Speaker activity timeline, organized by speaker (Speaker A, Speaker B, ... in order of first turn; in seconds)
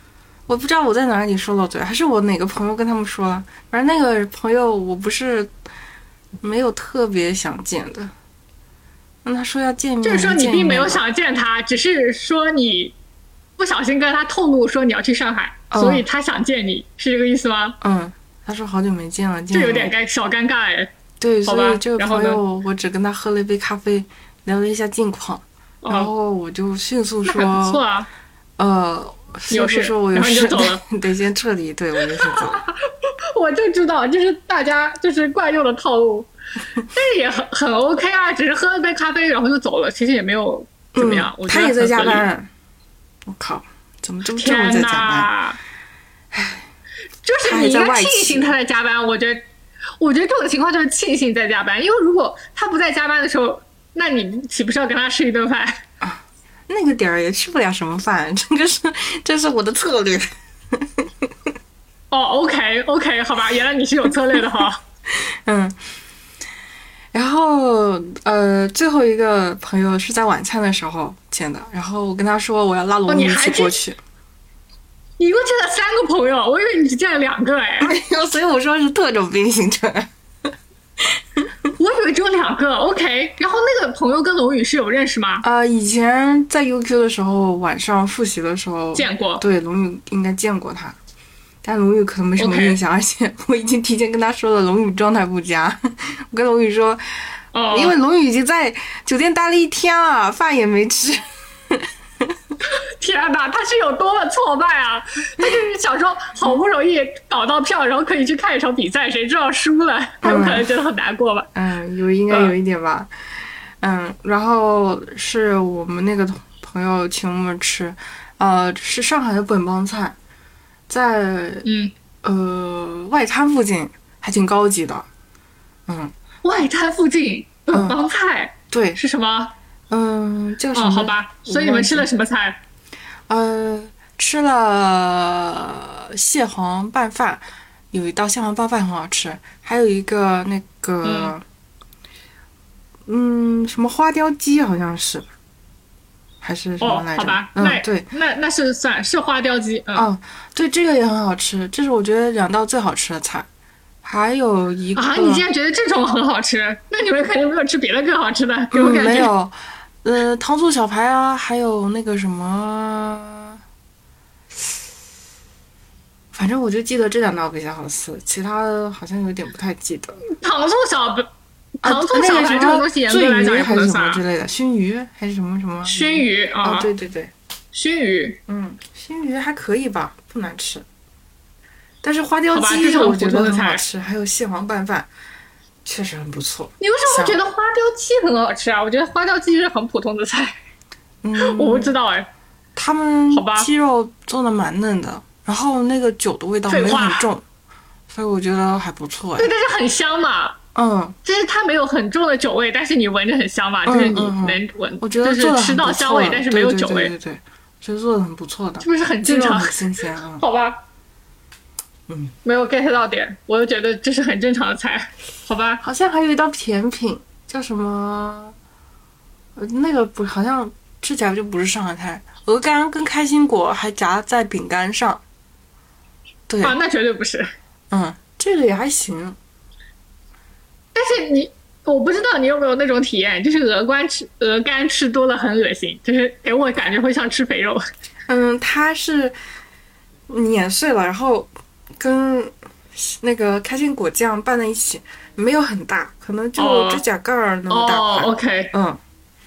Speaker A: 0.5-5.5, 6.4-8.1, 9.2-11.0, 15.7-16.1, 17.8-19.9, 21.2-27.8, 28.6-32.6, 41.0-42.5, 43.3-45.3, 46.3-46.7, 47.4-48.5, 56.0-61.3, 65.1-65.8, 67.1-74.0, 77.8-80.1, 81.0-81.5, 85.4-91.0, 91.6-102.5, 110.2-110.7, 111.5-120.2, 120.9-121.7, 122.2-125.1, 125.9-126.1, 127.7-128.0, 128.7-129.0, 129.9-132.1, 133.3-141.4, 143.1-145.3, 146.4-148.1, 149.9-153.5, 154.0-155.5, 158.7-163.6, 166.3-170.2, 171.8-177.3, 178.5-180.8, 182.0-185.1, 185.8-187.4, 191.2-191.9, 192.8-197.4, 198.1-199.5, 200.8-201.2, 203.9-210.4, 212.1-212.3, 215.8-218.6, 219.6-225.2, 226.5-226.8, 227.9-229.4, 238.3-239.4, 240.3-249.0
Speaker B: 10.0-12.9, 13.6-17.8, 19.5-20.9, 21.5-22.4, 25.8-26.1, 27.2-28.1, 29.5-30.8, 32.1-42.3, 44.4-45.6, 47.2-49.4, 50.0-55.8, 62.1-64.8, 73.1-73.8, 75.2-78.0, 81.8-85.5, 89.0-89.5, 92.4-92.8, 97.5-98.0, 102.6-111.5, 121.6-121.9, 126.4-129.5, 130.7-132.6, 141.0-141.3, 146.8-150.1, 155.0-159.3, 170.4-174.2, 175.8-176.9, 177.7-178.4, 182.5-183.8, 186.8-190.6, 191.4-192.3, 193.3-193.7, 196.7-197.3, 199.4-200.6, 201.2-207.1, 208.8-210.8, 212.4-215.8, 226.6-227.5, 230.9-237.9, 246.6-247.0, 247.7-248.7